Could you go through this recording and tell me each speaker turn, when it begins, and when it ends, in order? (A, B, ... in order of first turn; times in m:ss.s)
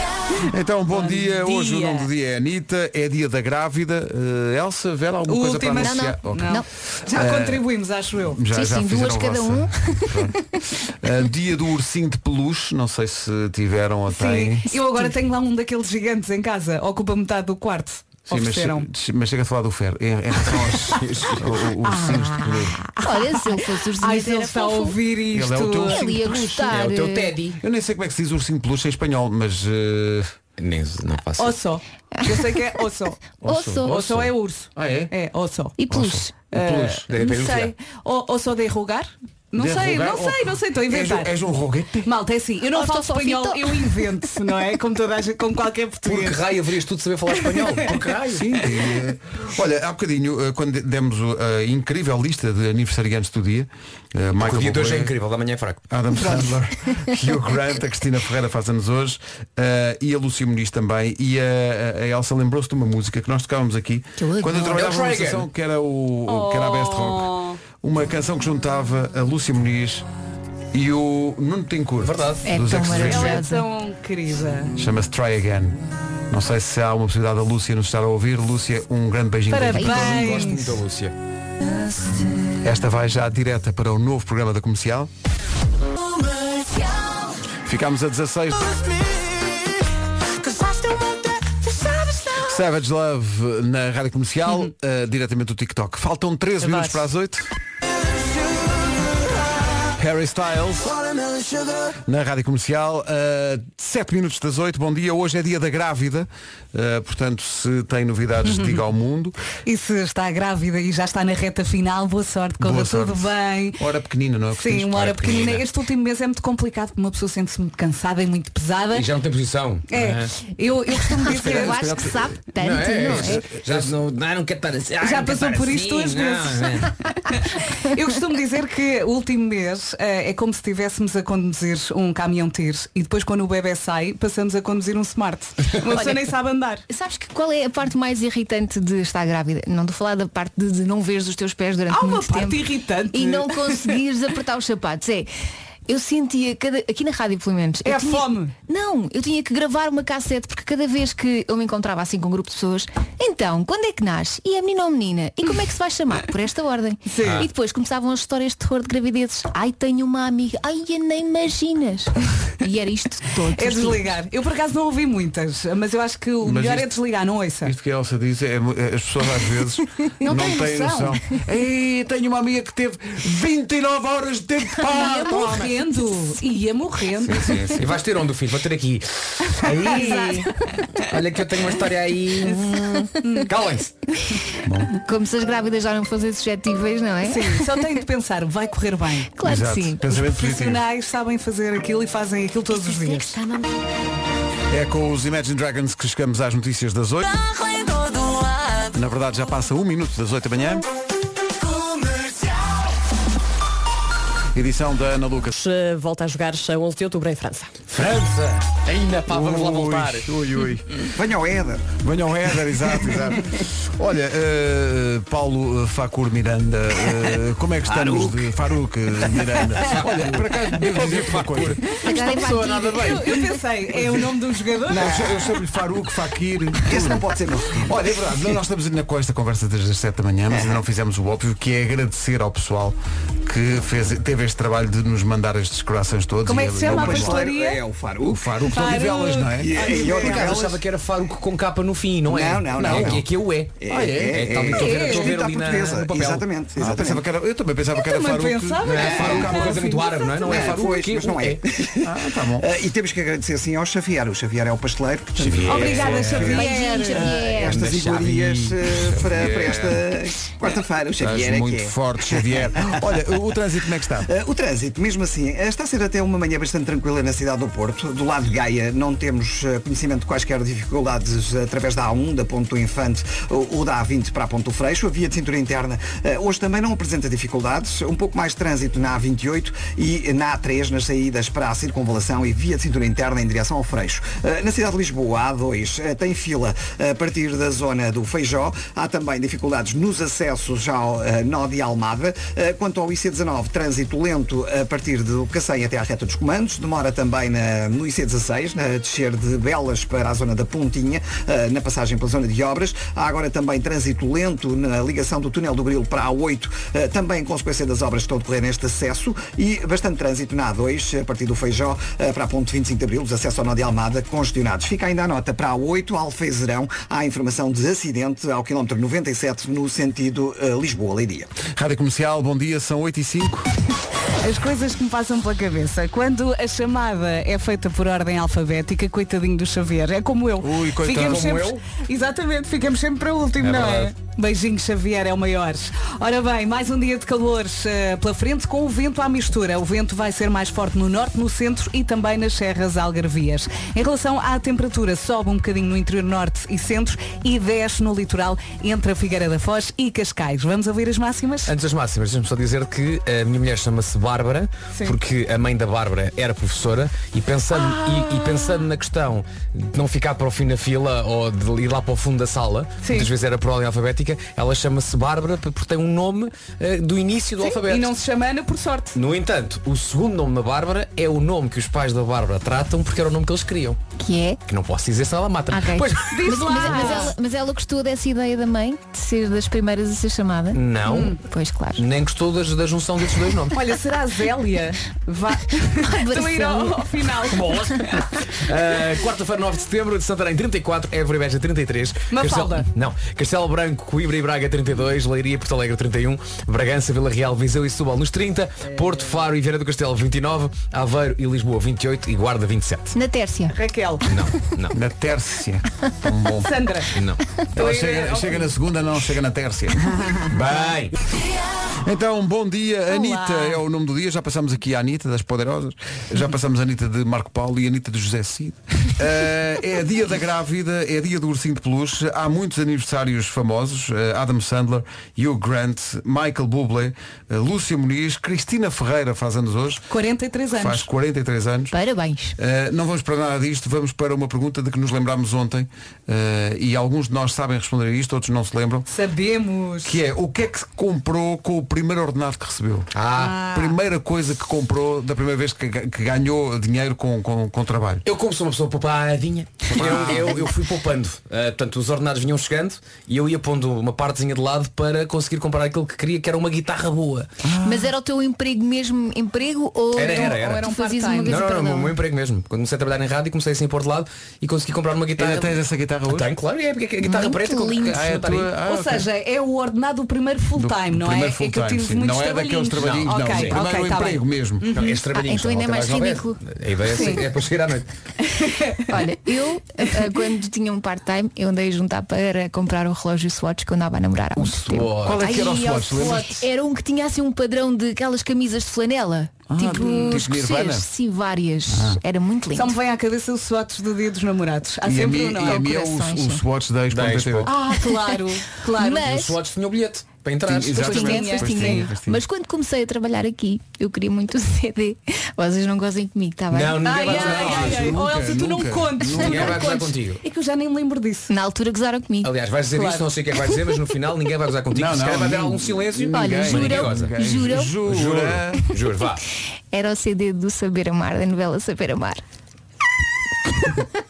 0:00.4-0:07.7 A
0:00.9-0:02.1 B
0:05.3-0:08.4 B
0:05.8-0:06.6 C
0:08.3-0:14.7 A
0:08.5-0:10.4 C
0:14.1-0:18.9 B
0:18.3-0:22.9 A
0:20.9-0:21.4 D
0:21.8-0:25.0 C
0:24.0-0:26.1 B
0:25.3-0:26.7 A
0:25.8-0:27.4 C
0:26.7-0:27.6 D
0:27.6-0:30.3 A
0:30.6-0:31.6 D
0:31.4-0:33.2 B
0:32.2-0:32.8 C
0:33.4-0:33.9 C
0:33.4-0:34.2 A
0:33.8-0:35.8 B
0:33.8-0:34.3 D
0:34.7-0:35.1 A
0:35.8-0:36.3 C
0:35.9-0:37.1 A
0:36.5-0:41.3 B
0:37.1-0:37.7 D
0:39.6-0:42.1 A
0:42.0-0:46.4 B
0:42.7-0:44.1 C
0:46.0-0:48.6 D
0:48.3-0:55.1 A
0:54.4-0:55.8 D
0:55.9-1:10.0 A
1:04.2-1:04.8 C
1:04.7-1:05.4 D
1:06.2-1:07.6 B
1:10.7-1:13.4 A
1:12.0-1:12.5 D
1:12.4-1:13.7 C
1:12.9-1:14.7 B
1:14.8-1:15.8 A
1:16.3-1:20.4 A
1:19.5-1:20.6 B
1:19.7-1:20.3 C
1:19.9-1:21.1 D
1:22.6-1:25.1 A
1:27.6-1:28.7 A
1:30.6-1:31.1 D
1:31.8-1:32.2 D
1:32.4-1:37.5 A
1:40.0-1:41.0 A
1:42.0-1:49.4 A
1:48.4-1:48.8 B
1:49.6-1:53.8 B
1:52.6-1:55.6 A
1:54.5-1:59.1 B
1:58.9-2:00.3 D
1:59.9-2:01.8 B
2:01.2-2:03.4 C
2:01.5-2:02.2 A
2:02.6-2:06.9 D
2:03.0-2:03.9 A
2:05.0-2:16.8 B
2:15.9-2:16.3 C
2:16.9-2:25.3 C
2:21.9-2:24.0 B
2:25.9-2:44.0 C
2:27.8-2:28.5 B
2:37.1-2:37.5 B
2:43.6-2:47.7 B
2:46.4-2:46.9 A
2:47.6-2:55.8 A
2:50.2-2:51.2 B
2:54.8-2:57.6 B
2:57.3-2:57.8 A
2:57.4-3:03.9 D
2:59.5-3:00.4 B
3:03.2-3:03.5 B
3:04.6-3:05.0 A
3:04.9-3:08.0 C
3:07.2-3:09.3 B
3:09.4-3:10.1 C
3:09.4-3:10.8 A
3:10.1-3:13.4 B
3:12.7-3:13.7 C
3:14.7-3:17.3 A
3:18.9-3:20.8 A
3:24.5-3:25.5 A
3:25.5-3:27.7 E
3:27.9-3:30.3 D
3:29.3-3:30.9 A
3:31.1-3:31.9 F
3:32.0-3:42.8 A
3:37.8-3:38.5 F
3:39.3-3:40.4 F
3:40.9-3:41.8 D
3:41.9-3:43.5 C
3:42.9-3:45.1 B
3:44.9-3:45.6 F
3:44.9-3:57.5 A
3:46.8-3:48.6 F
3:56.4-3:57.8 B
3:56.8-3:58.5 F
3:58.2-3:59.9 A
3:58.6-4:00.6 B
3:59.6-4:00.8 F
4:00.0-4:06.5 D
4:02.2-4:03.2 F
4:02.8-4:03.2 A
4:03.8-4:07.2 F
4:03.9-4:04.4 A
4:04.7-4:05.3 B
4:06.8-4:09.9 A
4:08.0-4:10.7 B
4:08.8-4:11.6 D
4:09.2-4:09.7 F
4:10.4-5:21.5 F
4:12.0-4:12.7 A
4:15.4-4:16.3 D
4:15.6-4:17.4 B
4:15.7-4:16.6 A
4:16.4-4:17.8 C
4:17.6-4:20.0 A
4:21.2-4:24.3 A
5:21.6-5:23.7 A
5:24.4-5:51.7 B
5:30.6-5:31.5 A
5:31.1-5:31.8 D
5:33.6-5:34.1 D
5:51.6-6:08.2 D
5:57.7-5:58.6 B
6:03.0-6:03.3 B
6:07.8-6:09.2 B
6:09.1-6:14.0 D
6:14.2-6:14.6 C
6:14.7-6:17.2 D
6:15.7-6:22.0 C
6:16.3-6:17.3 B
6:20.7-6:21.3 D
6:21.1-6:21.4 B
6:22.0-6:23.8 D
6:23.7-6:27.7 B
6:26.0-6:27.1 C
6:27.5-6:43.2 D
6:32.3-6:32.9 B
6:43.1-6:43.8 C
6:43.7-6:44.2 B
6:44.2-6:45.0 D
6:44.9-6:46.7 A
6:46.6-6:47.1 B
6:47.1-6:47.4 D
6:47.7-6:50.5 A
6:47.7-6:48.7 B
6:50.5-6:51.1 D
6:52.0-7:10.0 A
6:53.1-6:53.8 B
7:10.1-7:11.1 B
7:10.7-7:11.9 A
7:11.9-7:12.6 C
7:12.6-7:19.1 A
7:19.1-7:20.2 B
7:20.0-7:23.1 A
7:23.1-7:23.6 D
7:23.4-7:24.0 B
7:23.6-7:28.2 A
7:28.2-7:37.5 D
7:29.9-7:30.7 A
7:37.6-7:38.1 A
7:37.8-7:42.2 C
7:40.2-7:40.9 D
7:40.2-7:41.6 B
7:41.5-7:45.7 D
7:45.4-7:46.5 A
7:46.3-7:48.7 D
7:47.2-7:48.3 C
7:48.0-7:49.3 A
7:48.8-7:55.2 B
7:50.8-7:55.0 A
7:53.0-7:53.8 D
7:54.9-7:58.1 D
7:55.3-7:56.6 C
7:57.1-7:57.4 B
7:58.4-7:59.2 B
7:59.1-8:13.0 C
8:04.6-8:05.6 D
8:05.2-8:06.6 A
8:09.7-8:11.1 A
8:09.9-8:10.3 B
8:11.9-8:12.2 A
8:12.7-8:15.9 B
8:15.0-8:17.7 A
8:15.6-8:16.6 C
8:17.1-8:17.7 D
8:17.6-8:19.3 B
8:18.0-8:19.6 C
8:19.2-8:21.2 D
8:20.6-8:22.4 A
8:21.0-8:27.4 C
8:21.0-8:22.1 B
8:26.7-8:28.2 D
8:27.0-8:31.5 B
8:27.3-8:29.8 A
8:29.3-8:30.4 D
8:31.5-8:32.5 C
8:32.4-8:37.3 D
8:32.9-8:33.3 B
8:34.9-8:38.9 A
8:36.3-8:38.0 C
8:38.0-8:39.4 D
8:39.9-8:42.4 C